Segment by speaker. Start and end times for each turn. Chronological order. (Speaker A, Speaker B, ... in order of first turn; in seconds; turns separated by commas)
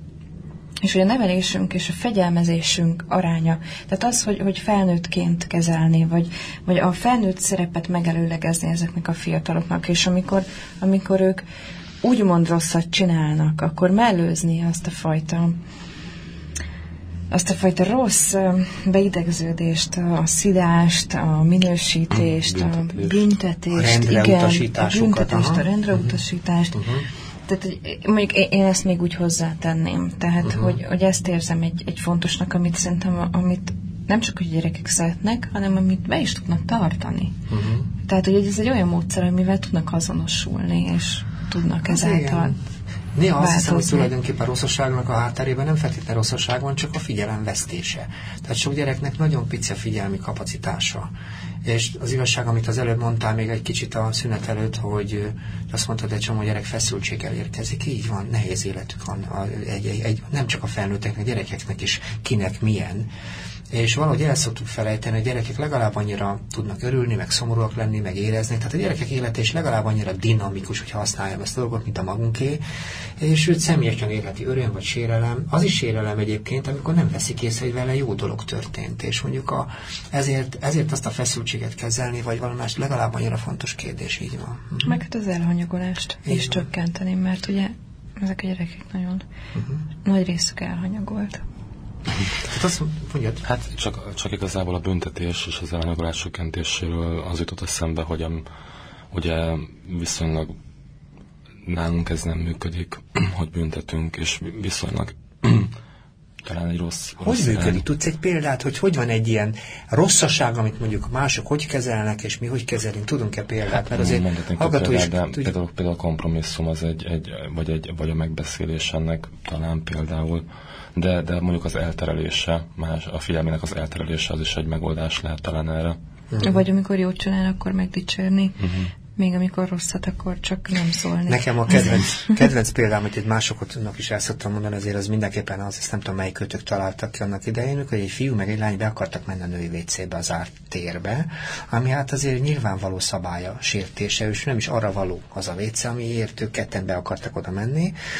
Speaker A: 0.8-11.4, Speaker A: 12.0-15.6, Speaker A: 17.3-26.9, Speaker B: 22.3-23.3, Speaker C: 23.7-26.1, Speaker C: 26.7-27.1, Speaker A: 27.5-37.4, Speaker C: 30.4-30.8, Speaker C: 37.5-37.9, Speaker A: 38.0-42.6, Speaker C: 41.8-42.6, Speaker C: 43.1-51.1, Speaker A: 43.4-44.1, Speaker C: 51.6-63.1, Speaker C: 63.7-72.6, Speaker C: 73.2-85.0, Speaker A: 84.8-89.2, Speaker C: 86.3-86.7, Speaker C: 89.5-89.8, Speaker A: 90.0-91.4, Speaker C: 92.4-93.4, Speaker B: 93.5-98.5, Speaker B: 99.1-100.5, Speaker B: 101.7-105.7, Speaker B: 106.4-107.8, Speaker C: 107.2-115.5, Speaker B: 113.9-126.0, Speaker C: 126.3-126.6, Speaker A: 126.4-128.6, Speaker B: 128.6-128.9, Speaker A: 129.2-132.3, Speaker C: 131.3-148.0